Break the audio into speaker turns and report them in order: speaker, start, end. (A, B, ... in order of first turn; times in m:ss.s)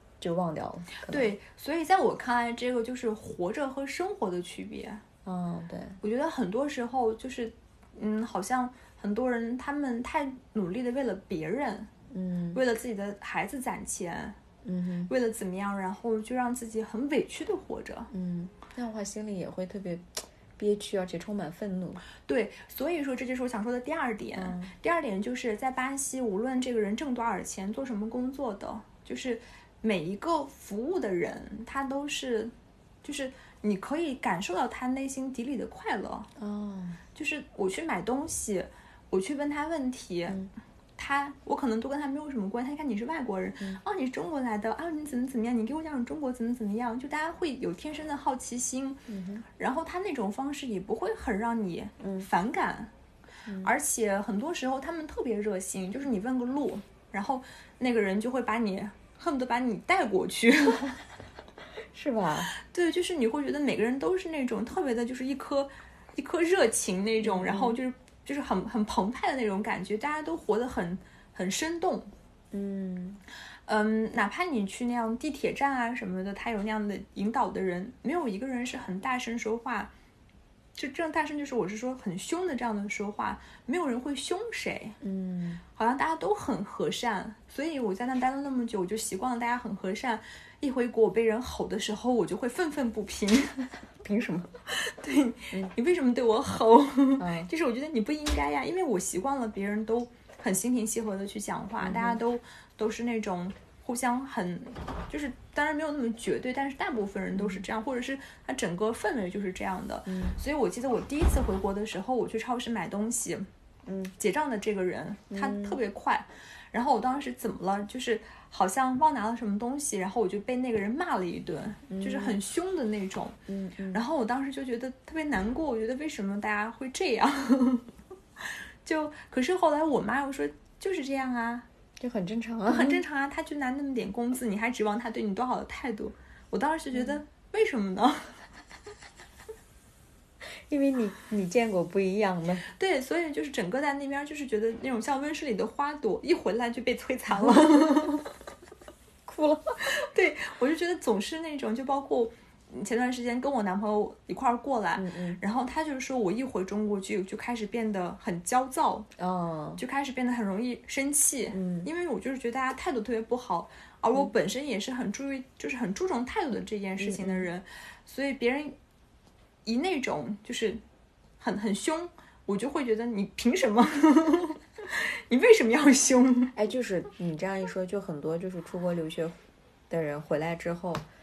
0:00.2-0:01.3 A
0:01.1-0:05.0 B
0:05.2-0:06.0 A
0:06.0-0:11.9 B
0:12.1-0:12.6 A
0:12.5-0:14.4 B
0:14.6-0:15.1 A
0:15.1-0:18.1 B
0:18.1-0:22.0 A
0:22.3-0:32.5 B
0:24.4-0:24.7 A
0:33.0-0:36.3 B
0:36.4-0:37.0 A
0:37.2-0:40.4 B
0:41.0-0:49.0 B
0:49.1-0:49.4 A
0:49.6-0:52.9 B
0:52.0-0:52.3 A
0:53.5-0:53.7 A
0:53.6-1:01.0 B
1:01.9-1:02.5 A
1:02.6-1:12.1 B
1:07.2-1:07.8 A
1:12.5-1:13.2 A
1:13.7-1:19.9 B
1:20.8-1:25.0 B
1:25.0-1:25.6 A
1:25.8-1:33.7 B
1:34.0-1:34.5 A
1:34.7-1:53.5 B
1:37.2-1:37.5 A
1:41.8-1:42.2 A
1:47.4-1:47.6 A
1:50.1-1:50.4 A
1:53.9-1:54.1 A
1:54.2-2:03.4 B
1:55.3-1:55.8 A
2:01.9-2:02.4 A
2:03.5-2:04.0 A
2:03.9-2:07.9 B
2:08.8-2:11.7 B
2:12.0-2:13.0 A
2:12.7-2:18.3 B
2:20.7-2:22.7 A
2:22.7-2:28.3 B
2:27.3-2:28.0 A
2:29.3-2:29.8 A
2:29.9-2:39.1 B
2:35.0-2:35.4 A
2:39.2-2:39.8 A
2:39.8-2:48.8 B
2:41.5-2:41.9 A
2:47.0-2:47.5 A
2:49.7-2:50.8 B
2:51.4-2:56.5 B
2:56.6-3:01.0 A